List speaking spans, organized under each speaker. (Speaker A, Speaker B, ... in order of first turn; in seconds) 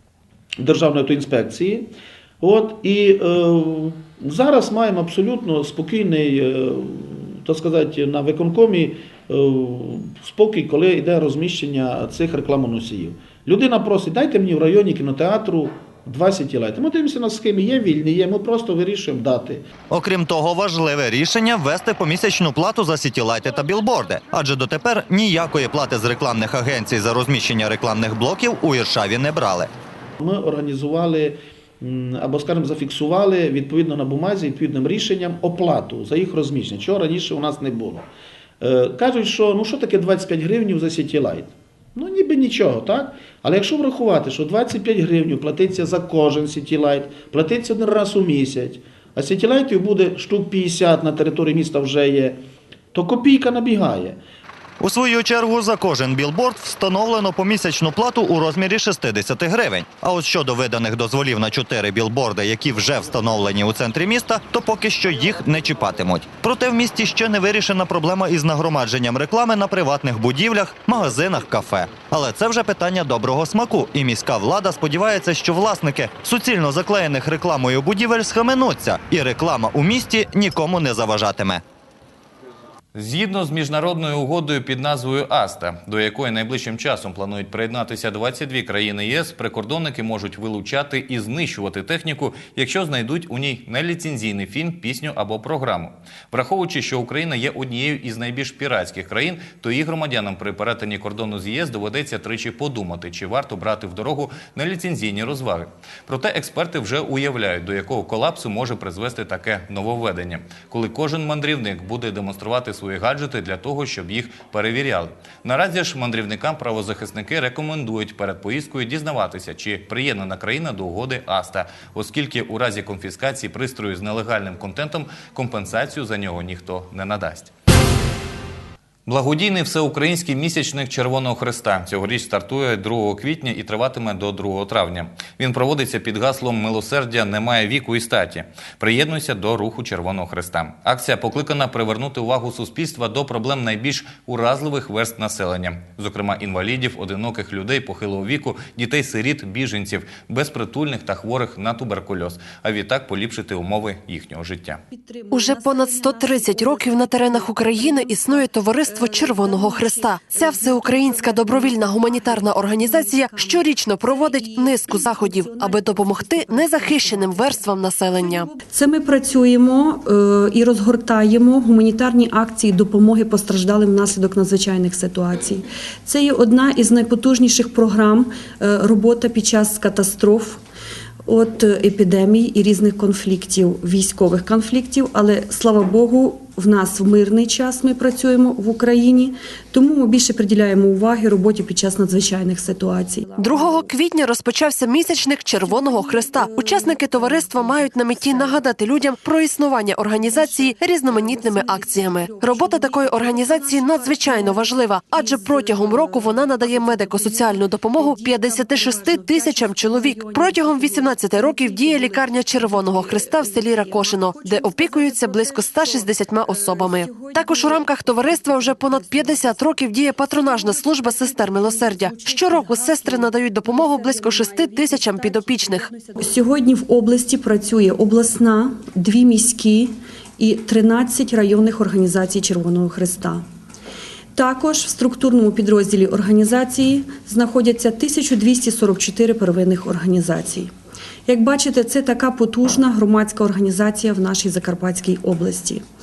Speaker A: 0.6-19.6, 30.2-38.1, 38.6-52.4, 52.9-54.2
Speaker B: 19.9-29.7, 54.8-81.6
Speaker C: 83.0-127.5, 129.1-154.8
Speaker D: 154.9-180.6, 181.3-193.9, 195.7-198.6, 200.2-233.4, 234.3-240.7, 241.3-245.8
Speaker E: 155.3-168.5, 193.4-225.9